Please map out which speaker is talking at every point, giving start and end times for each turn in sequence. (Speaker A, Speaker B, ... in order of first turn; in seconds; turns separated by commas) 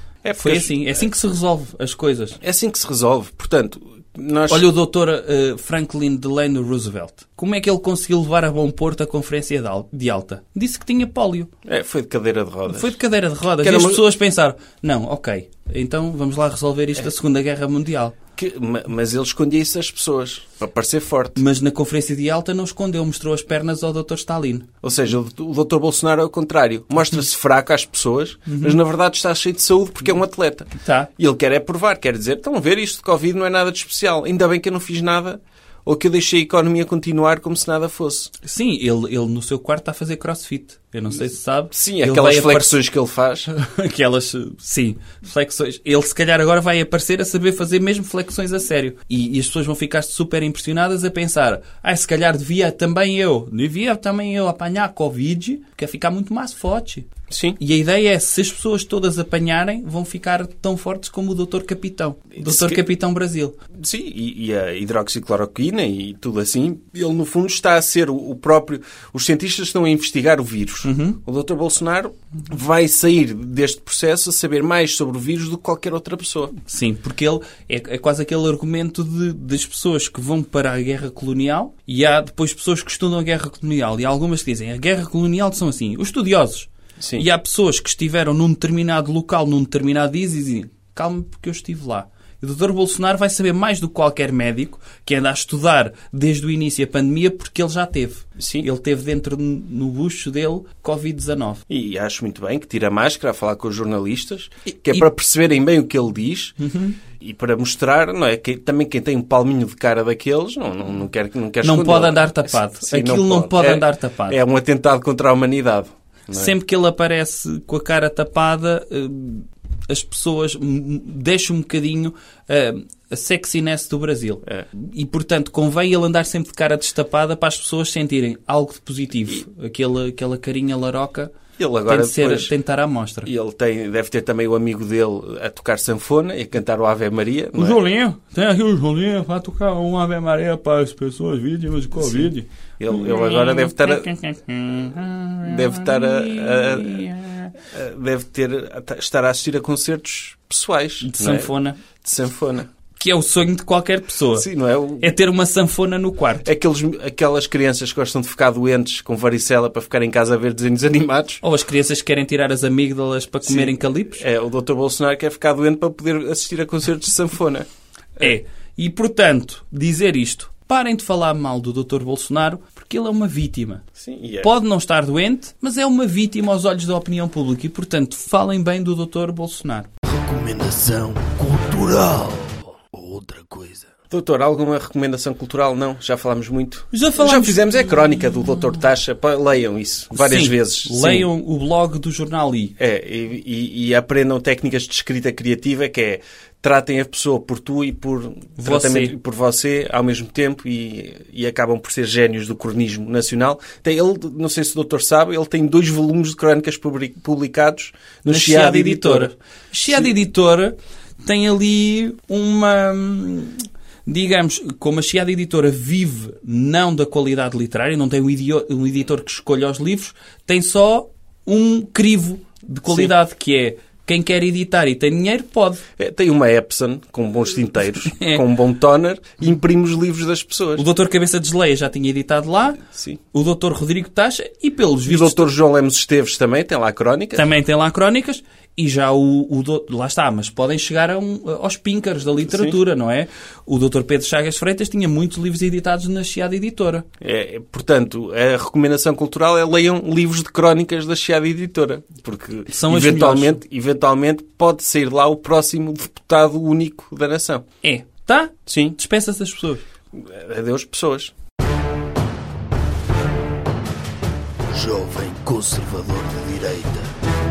Speaker A: 0.2-1.0, Speaker B: 0.4-2.4, Speaker A: 2.4-4.7, Speaker B: 4.5-11.5, Speaker A: 11.6-12.9, Speaker B: 12.7-18.1, Speaker A: 13.6-14.0, Speaker A: 18.4-21.4, Speaker B: 21.4-24.7, Speaker A: 24.8-38.3, Speaker B: 28.5-28.8, Speaker B: 30.8-31.1, Speaker B: 38.4-42.7, Speaker A: 41.7-43.5, Speaker B: 43.5-63.6, Speaker A: 57.3-57.6, Speaker A: 62.4-62.8, Speaker A: 63.7-76.5, Speaker B: 70.8-71.2, Speaker B: 76.6-101.6, Speaker A: 87.0-87.2, Speaker A: 98.4-98.7, Speaker A: 101.7-106.6, Speaker B: 106.6-107.0, Speaker A: 107.2-116.5, Speaker B: 111.6-114.4, Speaker B: 116.3-131.3, Speaker A: 131.6-132.5, Speaker B: 131.9-133.3, Speaker A: 133.2-137.8, Speaker B: 137.6-147.5, Speaker A: 142.8-144.1, Speaker A: 145.4-152.7, Speaker B: 151.0-151.8, Speaker B: 153.0-154.4, Speaker A: 154.3-155.1, Speaker B: 155.0-156.5, Speaker A: 156.4-161.4, Speaker B: 161.4-164.2, Speaker A: 163.4-167.7, Speaker B: 168.2-173.8, Speaker A: 174.0-174.5, Speaker B: 174.4-179.9, Speaker C: 180.0-183.9, Speaker A: 184.1-191.3, Speaker B: 186.9-188.8, Speaker B: 190.1-192.7, Speaker A: 192.8-209.3, Speaker B: 198.6-199.1, Speaker B: 208.2-225.8, Speaker A: 226.0-230.8, Speaker B: 228.1-228.4, Speaker B: 230.8-235.5, Speaker A: 232.9-233.2, Speaker A: 235.1-237.5, Speaker B: 237.3-247.1, Speaker A: 242.5-242.8, Speaker A: 247.2-257.6, Speaker B: 252.7-253.6, Speaker B: 257.8-259.8, Speaker A: 258.7-259.0, Speaker A: 260.1-261.3, Speaker C: 264.7-267.1